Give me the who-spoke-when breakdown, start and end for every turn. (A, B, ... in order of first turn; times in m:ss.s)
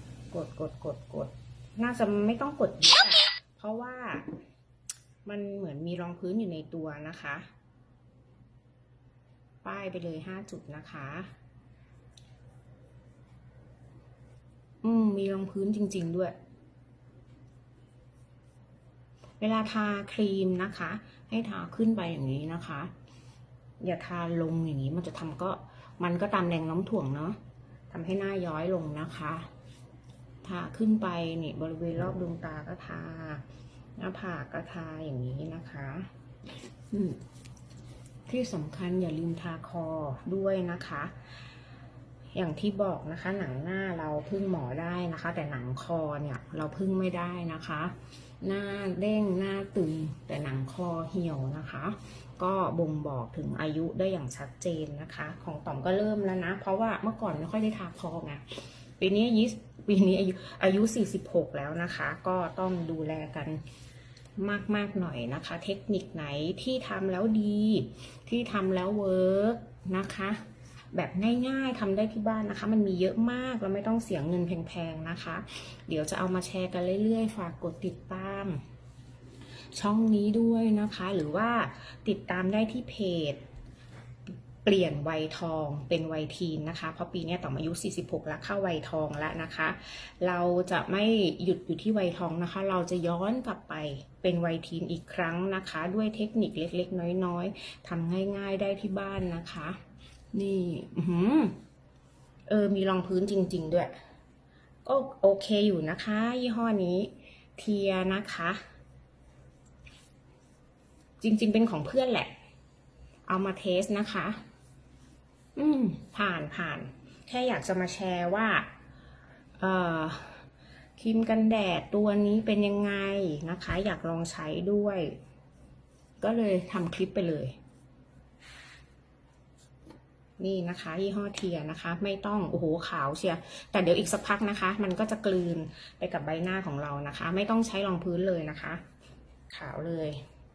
0:00.3-0:04.3 A
0:05.2-0:07.5 A
0:09.6-0:11.3 A
0:14.8-0:16.4 A
0:19.4-0:22.9 A
0:23.8-0:27.4 A
0:27.9-0:29.5 A
0:30.4-0:33.4 A
0:34.0-0:36.1 A
0:36.9-0:37.2 A
0:38.3-0:41.1 A
0:42.3-1:03.6 A
1:04.4-1:10.4 A
1:10.9-1:18.6 A
1:19.7-1:23.4 A
1:24.6-1:39.8 A
1:40.3-1:41.6 A
1:42.5-1:43.9 A
1:44.8-1:48.6 A
1:51.2-1:52.3 A
1:53.3-1:54.4 A
1:55.6-1:58.7 A
1:59.6-2:05.2 A
2:06.2-2:07.6 A
2:10.4-2:18.8 A
2:19.5-2:20.2 A